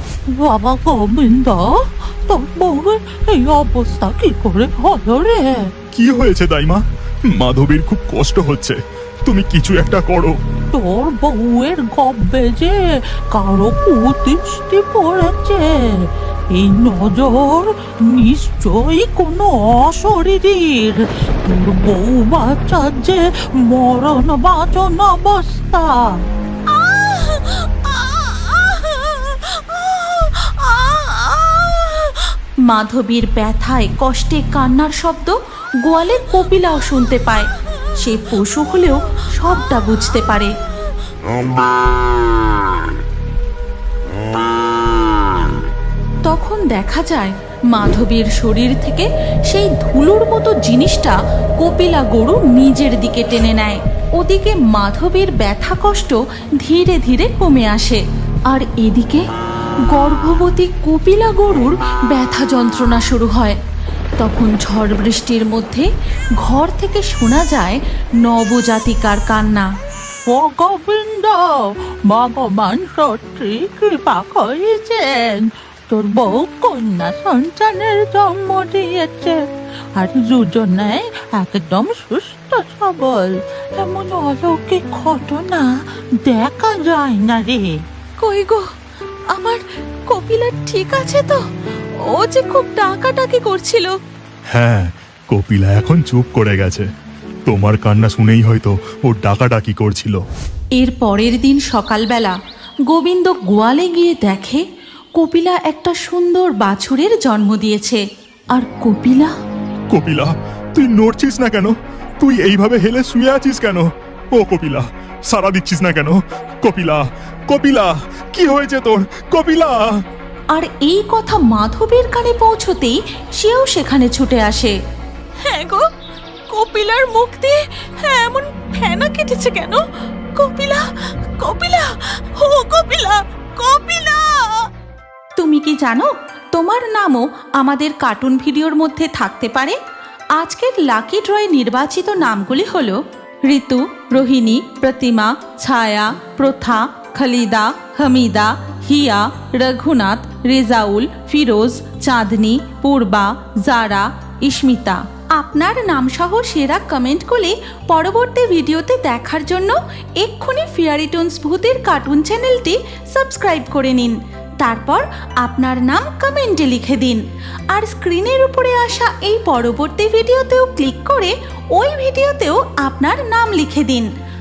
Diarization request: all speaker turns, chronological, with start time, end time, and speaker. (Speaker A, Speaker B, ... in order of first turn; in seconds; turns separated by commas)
Speaker A: 0.4-1.7, Speaker A: 2.3-5.6, Speaker B: 5.9-10.3, Speaker A: 10.7-12.8, Speaker A: 13.3-15.8, Speaker A: 16.5-26.0, Speaker C: 26.7-40.5, Speaker C: 46.3-59.2, Speaker C: 59.9-63.6, Speaker C: 64.2-65.9, Speaker C: 66.4-69.7, Speaker A: 70.3-71.5, Speaker A: 72.1-79.4, Speaker A: 80.0-85.7, Speaker A: 86.2-87.7, Speaker C: 88.2-88.6, Speaker C: 89.3-91.4, Speaker C: 92.1-93.9, Speaker B: 94.5-96.9, Speaker B: 97.5-100.2, Speaker C: 100.8-102.4, Speaker C: 102.9-104.6, Speaker C: 105.2-108.0, Speaker C: 108.6-109.3, Speaker B: 109.9-113.9, Speaker B: 114.4-119.9, Speaker C: 120.5-124.8, Speaker C: 125.5-125.8, Speaker C: 126.5-129.8, Speaker C: 130.4-130.8, Speaker C: 131.4-131.9, Speaker C: 132.4-134.6, Speaker C: 135.4-139.8, Speaker C: 140.4-174.1